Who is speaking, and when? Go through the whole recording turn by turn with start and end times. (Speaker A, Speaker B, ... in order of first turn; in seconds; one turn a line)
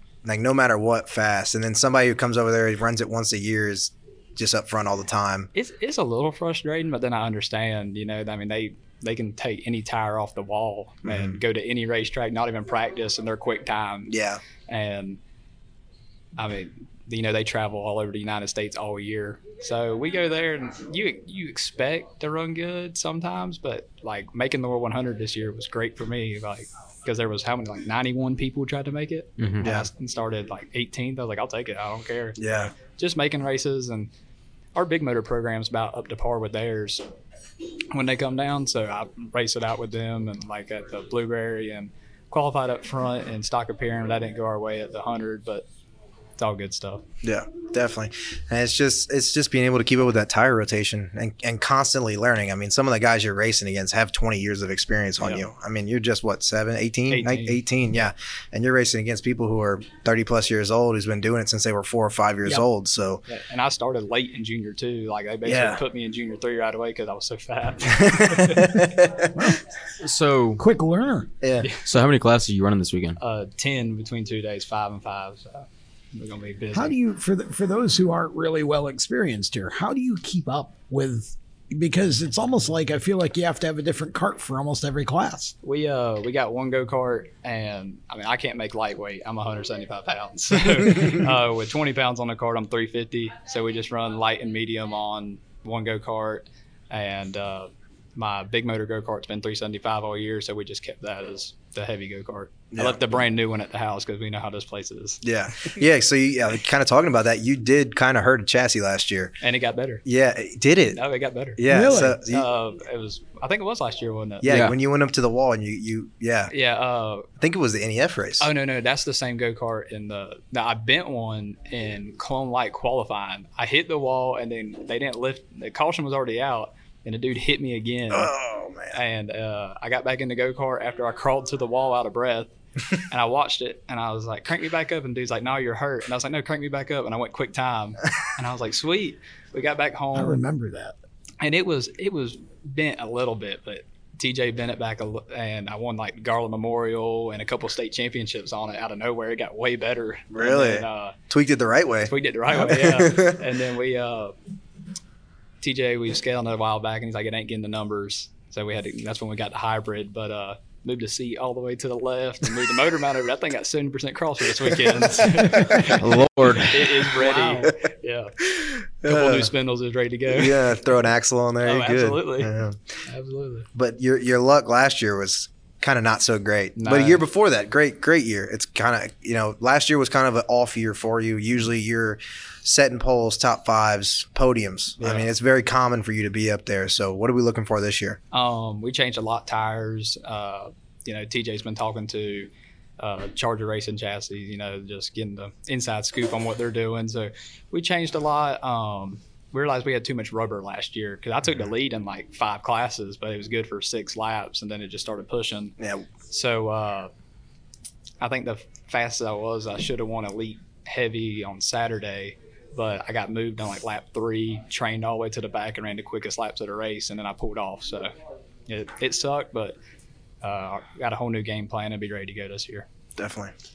Speaker A: 0.2-5.5
Speaker B: 5.5-14.2
Speaker A: 11.1-11.4
Speaker A: 14.1-14.4
Speaker B: 14.7-15.2
Speaker B: 16.4-34.1
Speaker A: 29.6-29.9
Speaker A: 32.4-32.7
Speaker B: 34.8-37.0
Speaker B: 37.9-45.7
Speaker B: 46.4-47.0
Speaker A: 47.2-63.2
Speaker B: 55.2-55.5
Speaker B: 57.1-57.6
Speaker B: 63.3-68.9
Speaker A: 65.5-65.8
Speaker A: 68.0-69.3
Speaker C: 69.3-69.6
Speaker D: 70.0-70.6
Speaker C: 70.6-71.3
Speaker A: 71.4-71.7
Speaker D: 71.8-73.2
Speaker B: 73.2-77.0
Speaker C: 76.7-85.5
Speaker B: 85.6-105.2
Speaker A: 102.7-103.0
Speaker A: 105.2-109.3
Speaker B: 109.4-110.0
Speaker A: 110.0-111.0
Speaker B: 110.9-114.5
Speaker A: 111.6-112.5
Speaker C: 111.7-112.2
Speaker A: 114.4-116.5
Speaker D: 114.4-114.8
Speaker B: 116.5-117.3
Speaker A: 117.4-118.5
Speaker B: 118.4-128.3
Speaker A: 128.1-129.0
Speaker B: 128.9-132.5
Speaker B: 133.1-140.4
Speaker C: 140.1-141.0
Speaker B: 141.4-151.2
Speaker A: 150.3-153.4
Speaker B: 152.1-154.3
Speaker B: 155.6-166.0
Speaker A: 165.6-165.9
Speaker D: 166.0-166.9
Speaker B: 166.6-168.3
Speaker C: 167.2-167.7
Speaker A: 168.6-169.5
Speaker B: 169.0-170.8
Speaker A: 170.3-172.8
Speaker B: 171.6-172.5
Speaker B: 173.1-173.7
Speaker A: 173.8-188.2
Speaker B: 176.8-177.2
Speaker B: 185.0-185.3
Speaker B: 188.3-205.8
Speaker A: 205.8-206.1
Speaker B: 206.3-207.1
Speaker B: 208.2-218.1
Speaker B: 218.7-219.8
Speaker B: 220.4-222.9
Speaker A: 223.2-223.5